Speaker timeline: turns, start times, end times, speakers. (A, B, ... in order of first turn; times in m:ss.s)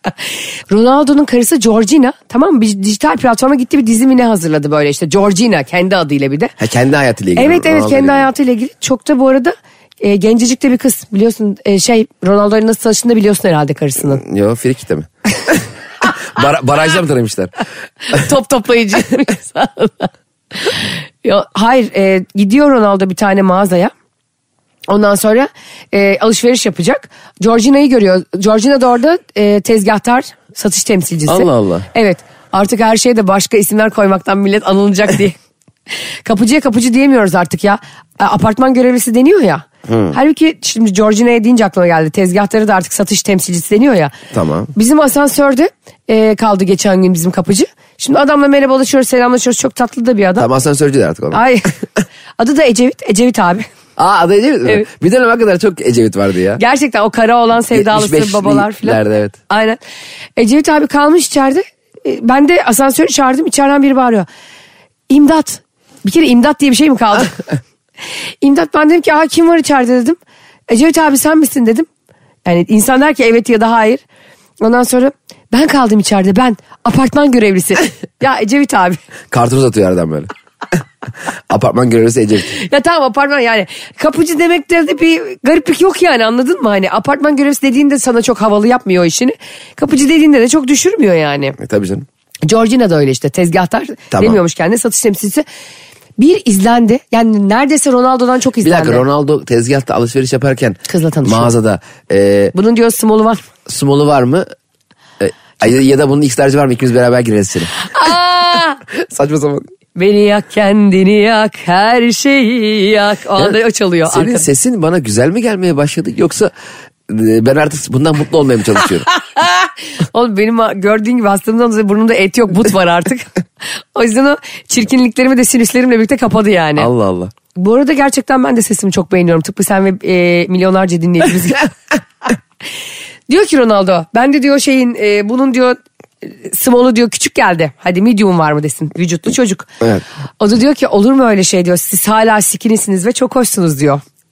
0:00.7-0:06.5 A
0:06.6-0:08.3 B
0:07.4-0:14.2 A
0:14.1-0:17.5 B
0:18.1-0:20.1 A
0:20.6-0:23.9 A
0:24.9-0:35.4 A
0:31.3-0:31.9 B
0:36.2-0:44.1 A
0:39.9-0:40.2 B
0:44.3-0:44.7 B
0:44.8-0:50.5 A
0:50.4-0:51.4 B
0:51.3-0:51.7 A
0:52.4-0:53.7 A
0:54.0-0:56.6 B
0:56.6-0:59.8 A
0:57.7-0:59.4 B
1:00.4-1:04.3 A
1:05.1-1:07.5 A
1:08.4-1:11.9 A
1:12.4-1:14.0 A
1:14.6-1:19.0 A
1:19.3-1:20.3 B
1:21.5-1:22.6 B
1:22.5-1:31.6 A
1:31.6-1:32.1 B
1:32.5-1:35.4 A
1:34.1-1:34.4 B
1:36.2-1:39.0 A
1:38.6-1:42.6 B
1:40.9-1:41.5 A
1:42.5-1:43.4 A
1:43.7-1:44.5 B
1:45.2-1:47.8 B
1:47.8-1:48.8 A
1:48.9-1:49.7 B
1:50.0-1:54.5 A
1:54.1-1:56.5 B
1:57.1-1:59.1 B
1:59.4-2:03.3 A
2:03.9-2:06.9 A
2:06.8-2:07.3 B
2:07.6-2:11.7 A
2:13.3-2:19.7 A
2:20.4-2:24.0 A